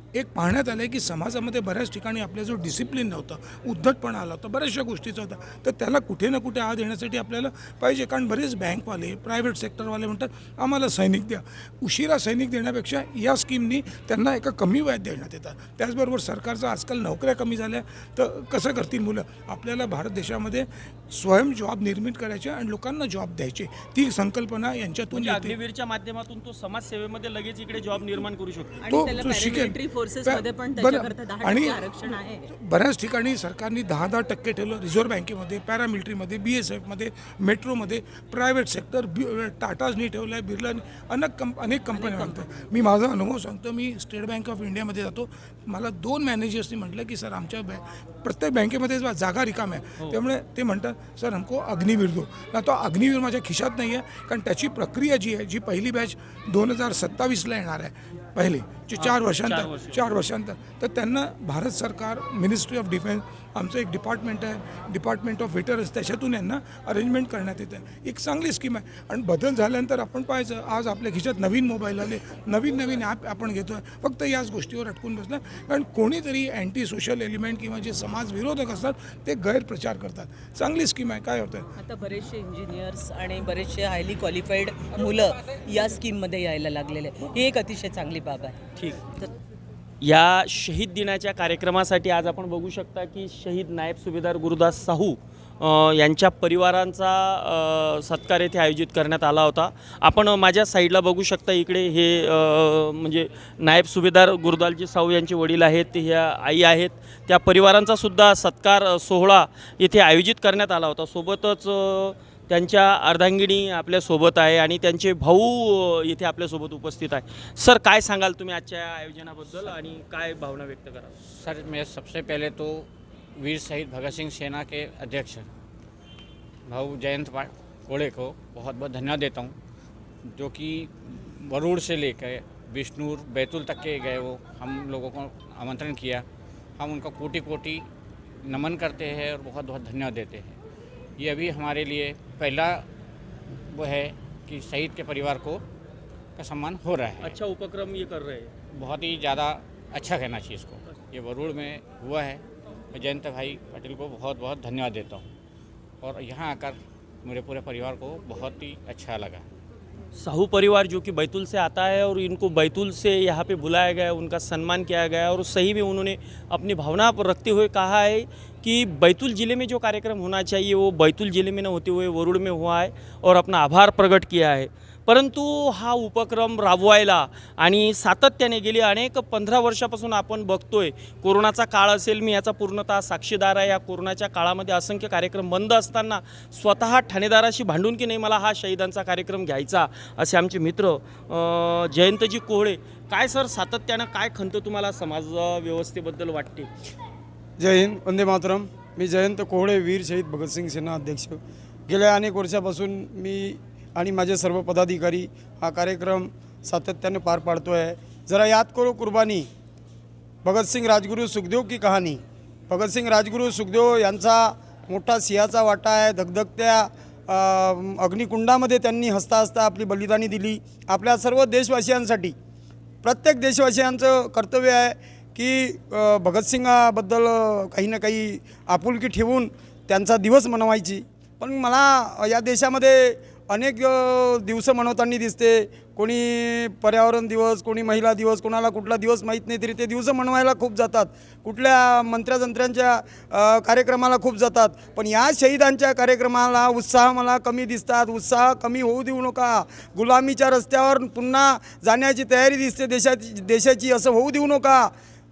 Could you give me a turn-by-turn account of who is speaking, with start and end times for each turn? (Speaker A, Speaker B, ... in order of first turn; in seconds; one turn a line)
Speaker A: 0.1-25.6
Speaker B: 25.1-28.8
Speaker C: 28.8-32.5
Speaker A: 28.9-81.7
Speaker C: 41.9-42.4
Speaker B: 59.0-60.0
Speaker C: 81.8-88.7
Speaker B: 88.8-89.0
Speaker B: 90.0-121.1
Speaker D: 121.3-125.5
Speaker D: 126.7-129.6
Speaker D: 130.3-136.3
Speaker D: 136.8-137.9
Speaker D: 138.4-140.6
Speaker D: 141.2-142.9
Speaker D: 143.7-145.7
Speaker D: 146.4-147.4
Speaker B: 147.2-148.5
Speaker D: 148.7-155.3
Speaker D: 156.0-159.5
Speaker B: 160.2-196.7
Speaker E: 197.6-209.5
Speaker E: 210.4-222.3
Speaker E: 223.0-254.9